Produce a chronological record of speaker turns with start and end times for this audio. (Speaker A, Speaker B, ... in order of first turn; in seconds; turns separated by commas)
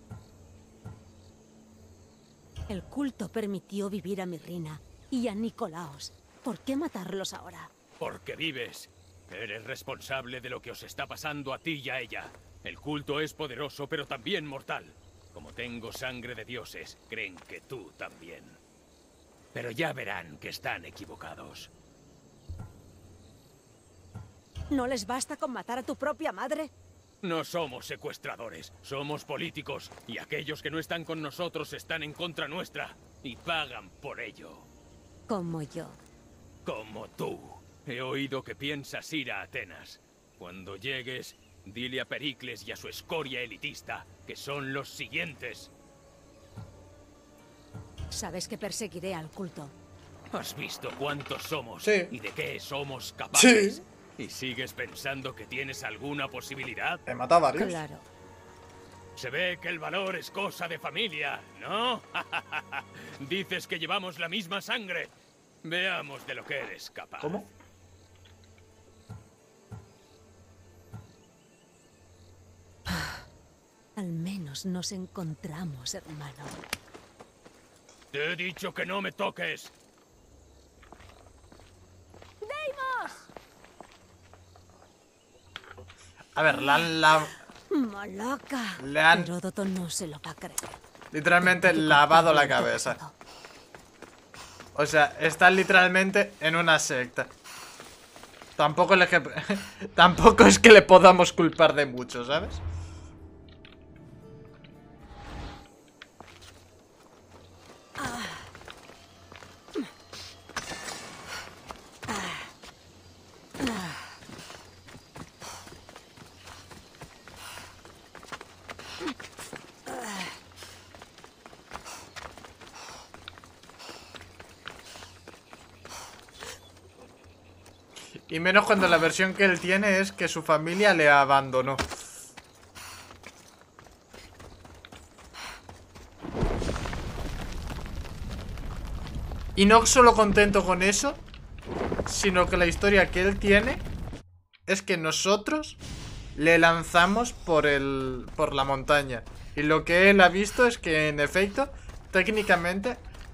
Speaker A: 2.7-7.7, Speaker B: 8.0-18.6, Speaker B: 19.5-21.7, Speaker A: 24.7-26.7, Speaker B: 27.2-34.7, Speaker A: 35.3-36.0, Speaker B: 36.6-45.7, Speaker A: 48.1-49.7, Speaker B: 50.3-57.0, Speaker C: 51.8-52.1, Speaker C: 53.4-53.8, Speaker C: 57.1-57.8, Speaker A: 57.5-58.1, Speaker B: 59.2-65.1, Speaker B: 65.6-67.5, Speaker C: 67.2-67.5, Speaker A: 74.0-76.6, Speaker B: 78.1-79.7, Speaker A: 82.4-83.2, Speaker C: 86.3-87.3, Speaker A: 87.7-90.8, Speaker C: 88.8-89.3, Speaker C: 91.1-93.0, Speaker A: 91.7-93.2, Speaker C: 94.8-97.3, Speaker C: 98.6-102.6, Speaker A: 108.0-108.3, Speaker A: 112.1-112.4, Speaker C: 128.3-131.9, Speaker C: 139.6-141.2, Speaker C: 142.1-143.9, Speaker C: 144.7-145.8, Speaker C: 146.3-153.0